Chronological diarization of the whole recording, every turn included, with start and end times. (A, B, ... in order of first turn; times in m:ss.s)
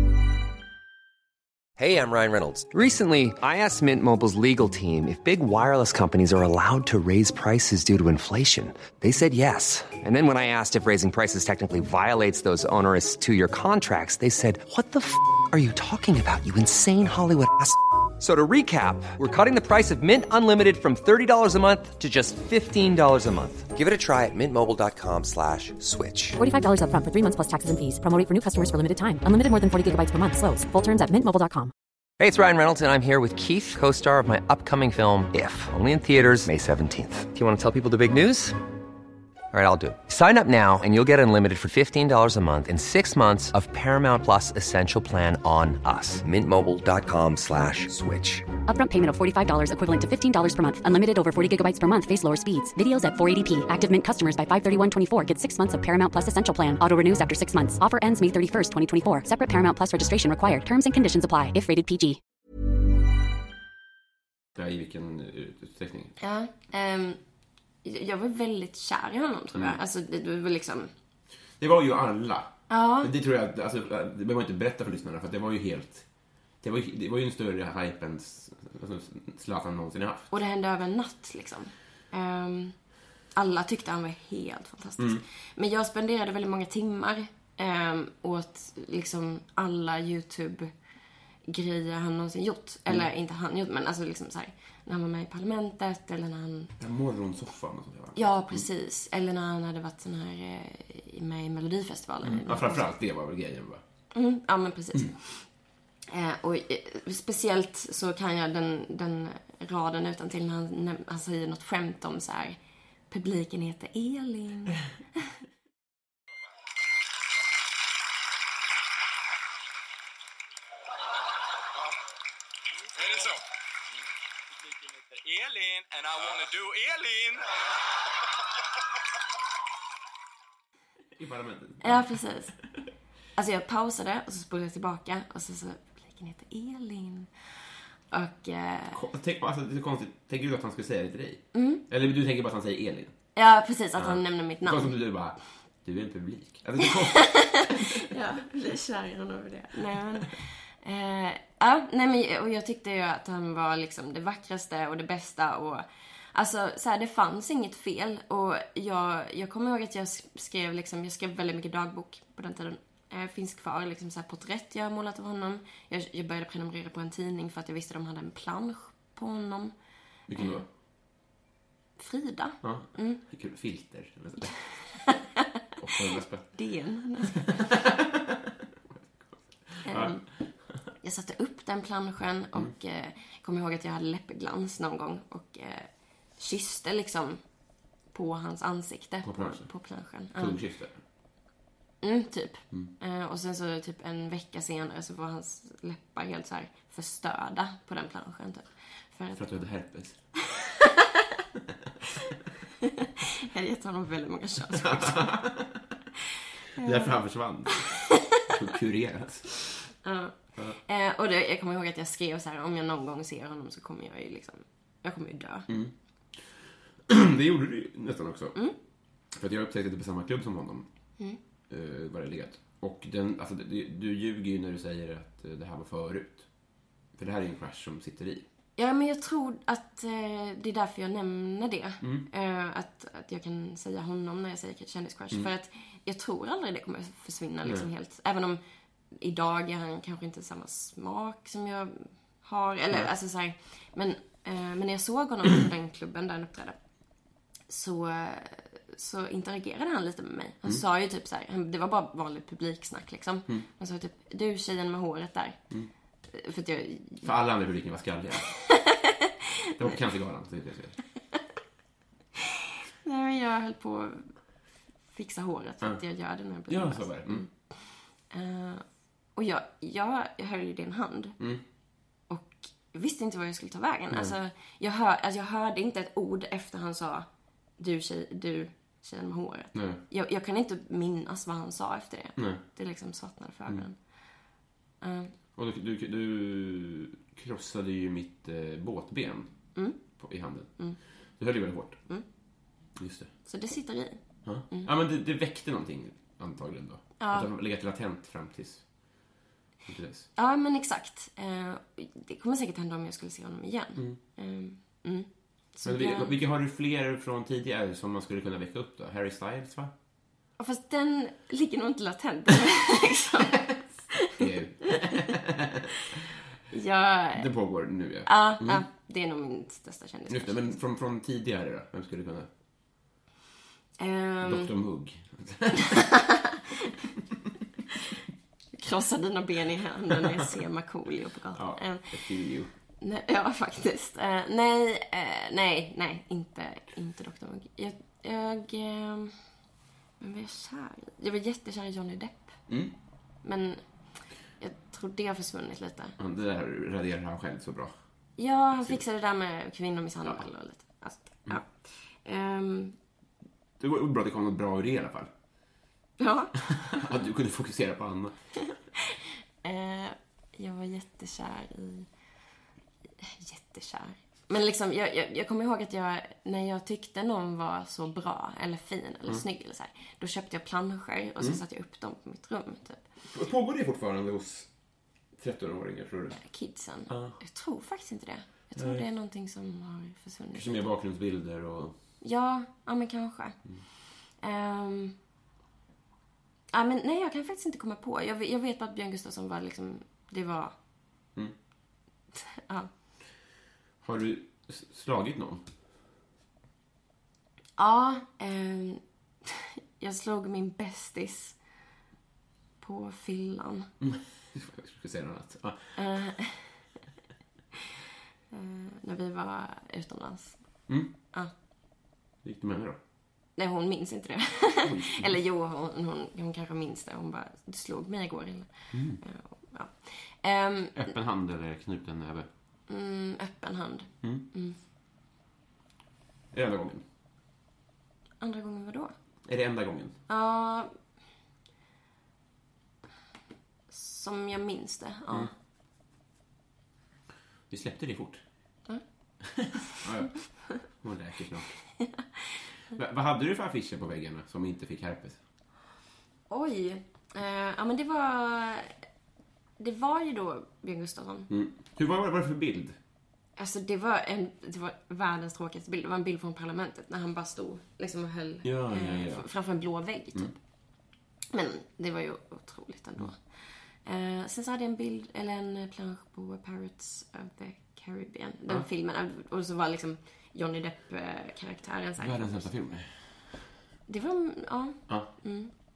0:01.8-0:26.3 A
0:26.4-0:31.7 B
0:32.2-0:38.6 A
0:39.5-0:48.4 A
0:48.7-1:02.2 B
1:04.6-1:06.1 C
1:06.2-1:07.2 D
1:07.8-1:10.9 D
1:11.6-1:16.0 C
1:12.7-1:13.1 D
1:16.6-1:20.3 C
1:20.3-1:22.7 D
1:23.3-1:30.7 D
1:31.4-1:36.7 D
1:36.8-1:38.6 C
1:38.2-1:42.9 D
1:42.2-1:43.8 C
1:44.1-1:45.5 D
1:46.1-1:52.6 D
1:53.1-1:54.8 D
2:03.0-2:03.4 E
2:05.1-2:07.4 E
2:11.2-2:12.2 C
2:11.8-2:12.5 D
2:13.4-2:17.5 D
2:18.1-2:19.0 D
2:18.9-2:23.1 C
2:21.5-2:21.8 D
2:23.4-2:24.9 D
2:24.0-2:27.9 C
2:27.1-2:49.7 D
2:50.3-2:50.6 C
2:50.4-2:50.6 D
2:52.0-2:53.2 D
2:52.6-2:54.9 C
2:55.8-2:56.5 C
2:56.5-2:57.7 D
2:57.4-2:58.3 C
2:59.7-3:00.3 C
2:59.8-3:00.2 D
3:01.0-3:07.4 D
3:08.1-3:10.6 D
3:09.2-3:09.7 C
3:10.3-3:11.0 C
3:12.0-3:19.4 D
3:19.3-3:20.2 C
3:20.5-3:21.0 D
3:23.5-3:25.3 D
3:24.8-3:25.8 C
3:26.8-3:27.1 D
3:26.8-3:29.6 C
3:27.8-3:28.4 D
3:30.0-3:35.7 D
3:35.7-3:38.6 C
3:39.3-3:40.8 C
3:41.7-3:46.5 C
3:47.2-3:48.4 C
3:48.8-3:58.6 D
3:52.0-3:52.3 C
3:59.1-4:06.8 D
4:07.7-4:15.6 D
4:16.3-4:17.3 D
4:17.2-4:18.5 C
4:18.7-4:19.1 D
4:19.8-4:21.0 C
4:23.0-4:24.3 D
4:25.1-4:28.8 D
4:26.7-4:27.4 C
4:29.4-4:31.4 D
4:32.3-4:37.2 D
4:37.8-4:44.0 D
4:39.7-4:40.0 C
4:45.0-4:45.3 D
4:45.5-4:49.5 C
4:49.7-4:50.0 D
4:50.1-4:50.7 C
4:51.4-4:52.0 C
4:53.0-4:53.3 C
4:53.4-4:54.9 D
4:54.4-4:58.8 C
4:57.2-4:57.5 D
4:59.8-5:00.3 C
5:00.4-5:06.3 D
5:05.8-5:09.9 C
5:10.6-5:14.3 D
5:14.3-5:15.8 C
5:16.7-5:17.5 D
5:17.3-5:18.8 C
5:18.2-5:20.8 D
5:20.3-5:22.5 C
5:24.0-5:24.7 D
5:24.4-5:26.1 C
5:25.9-5:26.6 D
5:28.7-5:32.1 D
5:31.5-5:32.7 C
5:33.0-5:39.4 D
5:40.2-5:42.6 D
5:42.7-5:42.9 C
5:43.4-5:43.8 D
5:44.6-5:46.2 D
5:46.2-5:47.9 C
5:48.4-5:52.9 D
5:53.8-5:55.3 C
5:56.2-5:57.0 D
5:56.7-5:58.3 C
5:59.1-6:02.1 D
6:03.2-6:13.0 D
6:13.3-6:14.7 C
6:15.4-6:16.4 C
6:16.4-6:20.9 D
6:17.1-6:17.4 C
6:18.8-6:19.0 C
6:20.5-6:22.0 C
6:22.2-6:23.6 D
6:24.4-6:25.1 D
6:26.7-6:30.7 D
6:32.3-6:32.9 D
6:34.0-6:35.6 C
6:37.8-6:41.6 D
6:42.8-6:43.9 D
6:44.0-6:46.0 C
6:46.0-6:46.8 D
6:48.5-6:50.6 D
6:52.4-6:53.0 C
6:53.6-7:01.1 D
6:54.8-6:55.4 C
6:58.9-6:59.2 C
7:00.9-7:02.5 C
7:02.9-7:04.8 D
7:06.5-7:07.0 C
7:08.4-7:09.1 D
7:09.4-7:10.1 C
7:10.3-7:10.9 D
7:13.9-7:15.5 D
7:17.7-7:18.4 C
7:19.4-7:21.8 C
7:22.0-7:22.2 D
7:22.9-7:25.4 C
7:26.5-7:29.0 D
7:29.8-7:31.5 D
7:31.5-7:33.0 C
7:33.6-7:40.5 D
7:38.6-7:39.5 C
7:41.5-7:52.7 D
7:52.2-7:53.1 C
7:54.1-7:55.7 D